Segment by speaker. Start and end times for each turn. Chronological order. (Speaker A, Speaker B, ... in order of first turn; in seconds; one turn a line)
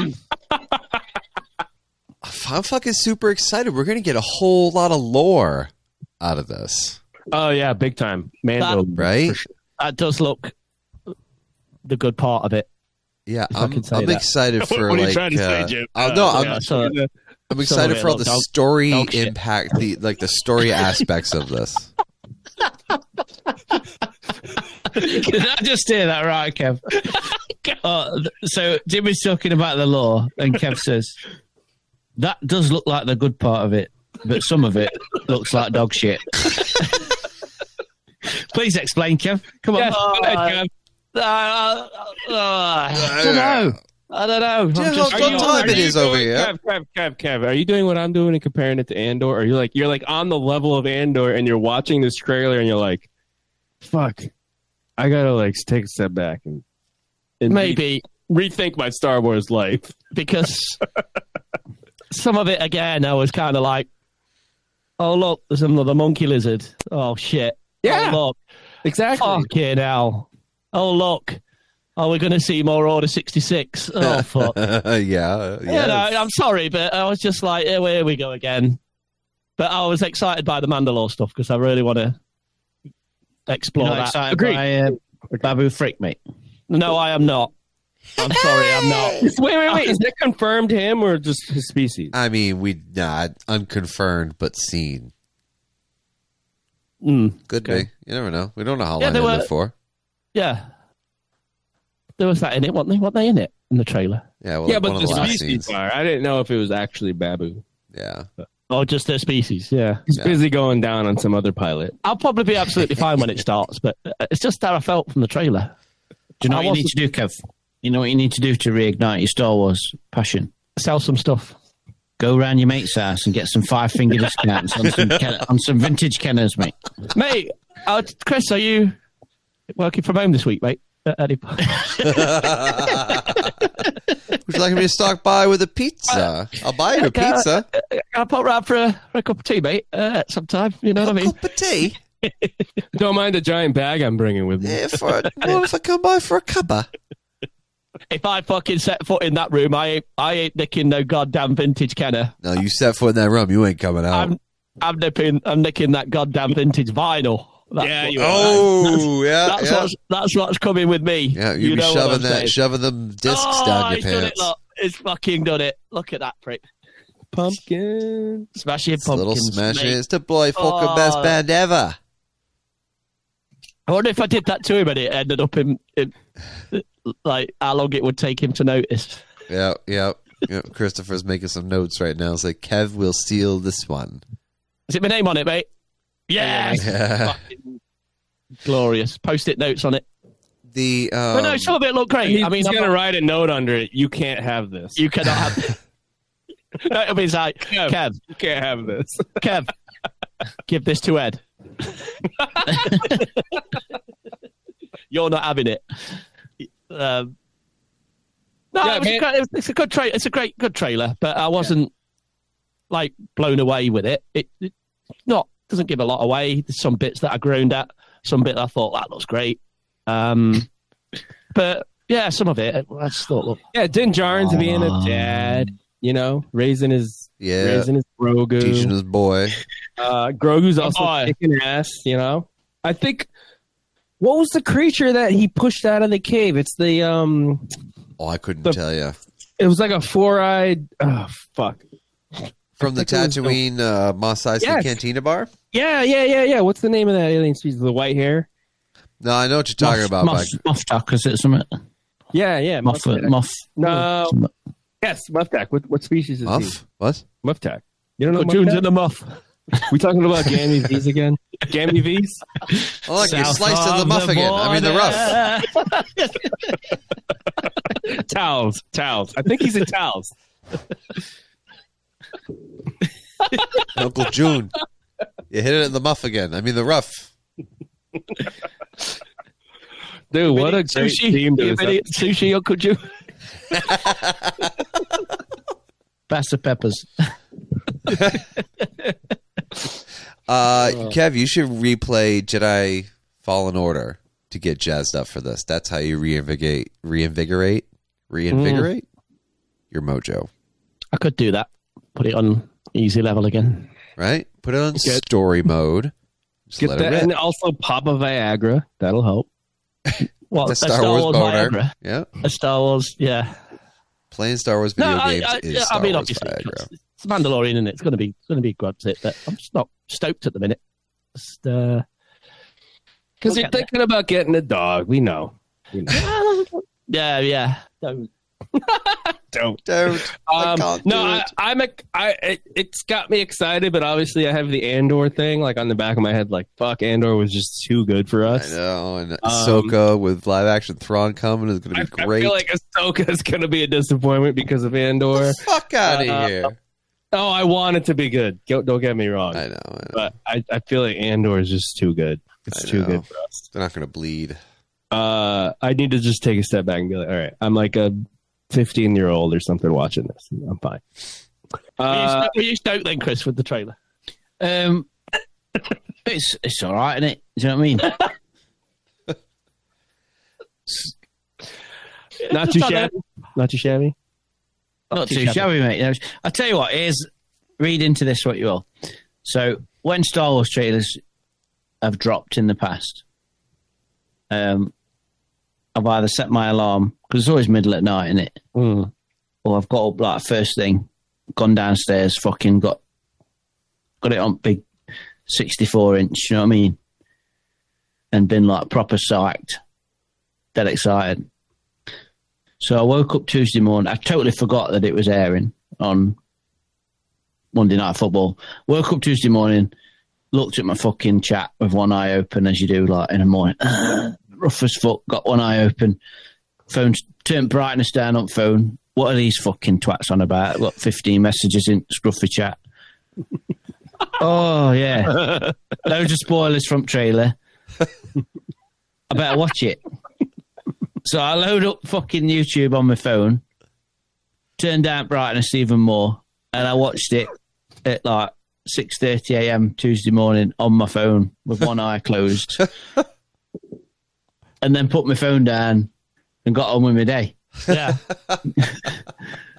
Speaker A: 2.2-7.0
Speaker B: 7.3-9.5
Speaker A: 9.0-9.4
Speaker C: 9.8-10.5
Speaker C: 11.9-12.7
Speaker A: 13.3-16.6
Speaker C: 13.5-14.2
Speaker B: 14.6-17.1
Speaker C: 16.4-17.0
Speaker A: 17.5-21.9
Speaker C: 17.6-19.4
Speaker D: 24.9-26.9
Speaker D: 27.8-31.2
Speaker D: 32.2-36.9
Speaker D: 38.3-40.0
Speaker B: 39.8-40.7
Speaker C: 39.9-40.6
Speaker C: 41.1-43.3
Speaker A: 42.9-43.8
Speaker D: 43.2-43.8
Speaker C: 44.1-45.9
Speaker A: 44.7-46.5
Speaker B: 45.1-53.1
Speaker B: 53.8-54.3
Speaker B: 55.0-56.6
Speaker B: 57.4-60.1
Speaker C: 57.5-58.0
Speaker C: 60.1-60.8
Speaker C: 62.1-63.9
Speaker C: 65.0-68.4
Speaker B: 67.8-68.2
Speaker B: 68.8-69.5
Speaker C: 69.2-71.4
Speaker C: 72.0-74.6
Speaker A: 74.0-76.2
Speaker C: 75.7-78.8
Speaker C: 79.6-82.2
Speaker C: 83.5-84.2
Speaker D: 83.8-86.2
Speaker B: 84.3-84.6
Speaker C: 86.7-87.5
Speaker C: 88.2-89.2
Speaker B: 89.2-92.1
Speaker A: 92.1-95.1
Speaker C: 97.0-97.9
Speaker A: 97.5-99.7
Speaker C: 99.0-99.5
Speaker C: 100.3-100.7
Speaker C: 102.2-104.2
Speaker A: 104.4-105.7
Speaker B: 104.6-107.6
Speaker C: 105.1-105.4
Speaker A: 107.9-108.3
Speaker C: 108.7-110.0
Speaker B: 110.1-112.0
Speaker C: 112.0-115.7
Speaker D: 116.4-120.5
Speaker C: 116.5-116.9
Speaker C: 120.8-121.5
Speaker D: 122.2-126.8
Speaker C: 127.1-128.9
Speaker C: 129.7-133.9
Speaker A: 132.0-133.5
Speaker A: 134.4-137.7
Speaker C: 136.9-141.3
Speaker A: 141.0-142.0
Speaker B: 142.9-145.5
Speaker A: 144.6-146.9
Speaker C: 148.1-152.3
Speaker A: 152.4-154.3
Speaker C: 154.1-162.6
Speaker B: 157.8-159.0
Speaker A: 158.2-159.9
Speaker A: 161.3-164.5
Speaker C: 163.2-166.6
Speaker B: 167.3-168.5
Speaker C: 168.6-170.0
Speaker A: 169.0-172.0
Speaker C: 170.6-171.4
Speaker C: 173.9-176.1
Speaker C: 176.7-179.2
Speaker A: 179.5-184.2
Speaker C: 184.9-185.7
Speaker C: 186.3-186.9
Speaker A: 186.7-187.4
Speaker C: 188.6-190.0
Speaker A: 190.7-191.8
Speaker C: 191.3-192.9
Speaker B: 192.2-195.3
Speaker C: 194.9-195.7
Speaker C: 196.8-198.2
Speaker B: 197.7-199.4
Speaker C: 199.4-199.7
Speaker C: 200.7-201.9
Speaker C: 202.8-203.2
Speaker C: 205.1-205.8
Speaker C: 206.6-207.3
Speaker C: 208.7-211.9
Speaker B: 208.8-209.2
Speaker C: 212.9-214.7
Speaker C: 215.3-220.7
Speaker C: 221.5-223.6
Speaker B: 223.7-228.9
Speaker D: 224.4-225.6
Speaker A: 227.4-227.9
Speaker A: 228.6-229.6
Speaker B: 230.0-233.3
Speaker C: 230.8-231.3
Speaker B: 234.2-237.7
Speaker A: 238.2-239.2
Speaker B: 239.6-241.8
Speaker B: 242.4-243.6
Speaker A: 242.8-245.5
Speaker B: 244.6-245.0
Speaker B: 245.7-248.5
Speaker A: 249.2-250.6
Speaker D: 249.8-251.7
Speaker B: 252.3-254.4
Speaker D: 252.8-254.5
Speaker B: 255.0-256.8
Speaker A: 256.4-257.2
Speaker B: 257.4-258.8
Speaker C: 258.3-259.4
Speaker B: 259.8-262.4
Speaker A: 263.1-265.5
Speaker D: 263.1-265.9
Speaker B: 267.9-270.3
Speaker A: 273.9-274.8
Speaker A: 275.5-277.3
Speaker B: 280.3-282.0
Speaker C: 280.5-283.0
Speaker A: 283.9-284.5
Speaker D: 286.3-287.1
Speaker A: 288.1-288.5
Speaker A: 290.5-299.1
Speaker B: 298.5-298.9
Speaker A: 299.9-300.5
Speaker C: 301.1-303.9
Speaker A: 304.2-306.1
Speaker B: 305.0-305.2
Speaker A: 306.7-307.3
Speaker B: 306.8-309.5
Speaker A: 310.2-312.3
Speaker C: 310.5-313.6
Speaker A: 314.3-316.9
Speaker C: 315.0-320.8
Speaker C: 321.4-322.1
Speaker B: 323.4-326.3
Speaker C: 323.5-323.9
Speaker C: 326.1-328.3
Speaker B: 328.8-338.8
Speaker A: 329.9-331.5
Speaker A: 338.4-342.6
Speaker B: 339.4-339.9
Speaker B: 341.9-346.7
Speaker A: 345.4-346.7
Speaker B: 347.3-353.6
Speaker A: 349.5-350.3
Speaker A: 352.7-354.6
Speaker B: 355.1-361.0
Speaker B: 362.0-362.6
Speaker C: 362.1-363.9
Speaker D: 364.6-365.1
Speaker D: 366.2-368.2
Speaker C: 372.4-373.1
Speaker B: 372.5-374.1
Speaker D: 375.1-377.3
Speaker B: 375.2-375.6
Speaker D: 377.8-378.9
Speaker D: 379.4-381.2
Speaker D: 382.0-383.2
Speaker D: 384.5-384.9
Speaker D: 385.9-388.6
Speaker C: 388.8-389.1
Speaker D: 389.6-393.0
Speaker D: 394.2-394.9
Speaker D: 395.5-397.0
Speaker D: 398.3-399.8
Speaker D: 400.7-401.4
Speaker D: 402.8-406.4
Speaker D: 407.7-409.9
Speaker D: 410.5-416.2
Speaker D: 416.9-422.8
Speaker D: 424.4-427.6
Speaker D: 429.3-430.0
Speaker D: 431.2-433.6
Speaker D: 434.8-437.5
Speaker D: 438.1-442.8
Speaker D: 444.8-446.1
Speaker D: 446.6-447.6
Speaker C: 447.9-448.2
Speaker D: 448.8-449.2